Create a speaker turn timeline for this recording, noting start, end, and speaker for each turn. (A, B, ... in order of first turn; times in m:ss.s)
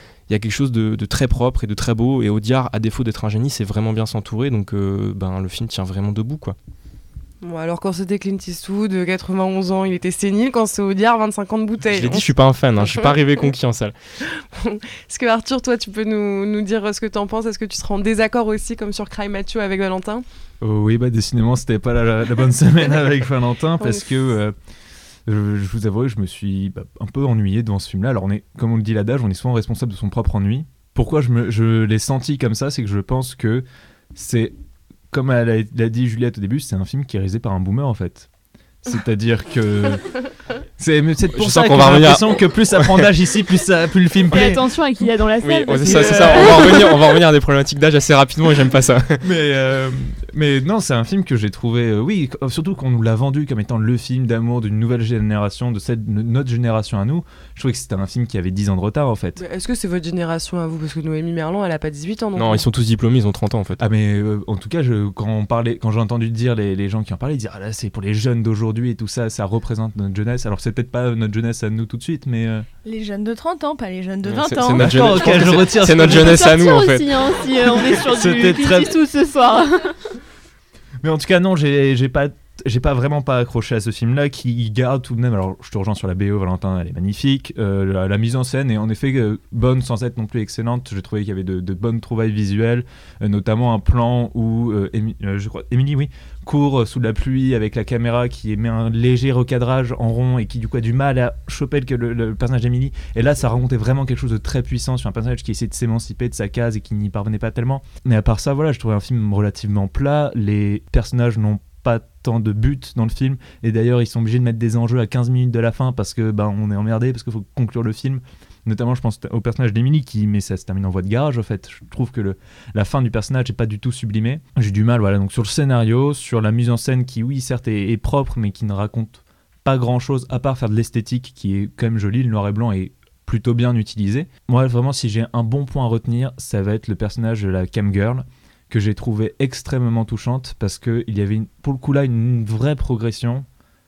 0:00.3-0:06.6 A
0:07.4-0:13.5 B
0:11.9-0:14.0 A
0:14.2-0:20.2 B
0:20.6-0:24.6 C
0:23.8-0:24.0 B
0:25.3-0:34.5 C
0:35.1-0:38.3 C
0:38.8-0:40.1 C
0:40.8-0:44.6 C
0:41.4-0:43.1 A
0:44.3-0:47.2 D
0:45.4-0:49.2 A
0:45.9-0:46.4 C
0:49.2-0:59.4 C
0:59.4-1:02.6 B
1:02.4-1:03.8 A
1:03.8-1:12.7 C
1:12.8-1:15.2 E
1:14.2-1:17.3 A
1:14.8-1:16.6 C
1:16.0-1:20.0 D
1:18.0-1:19.0 C
1:21.0-2:23.5 C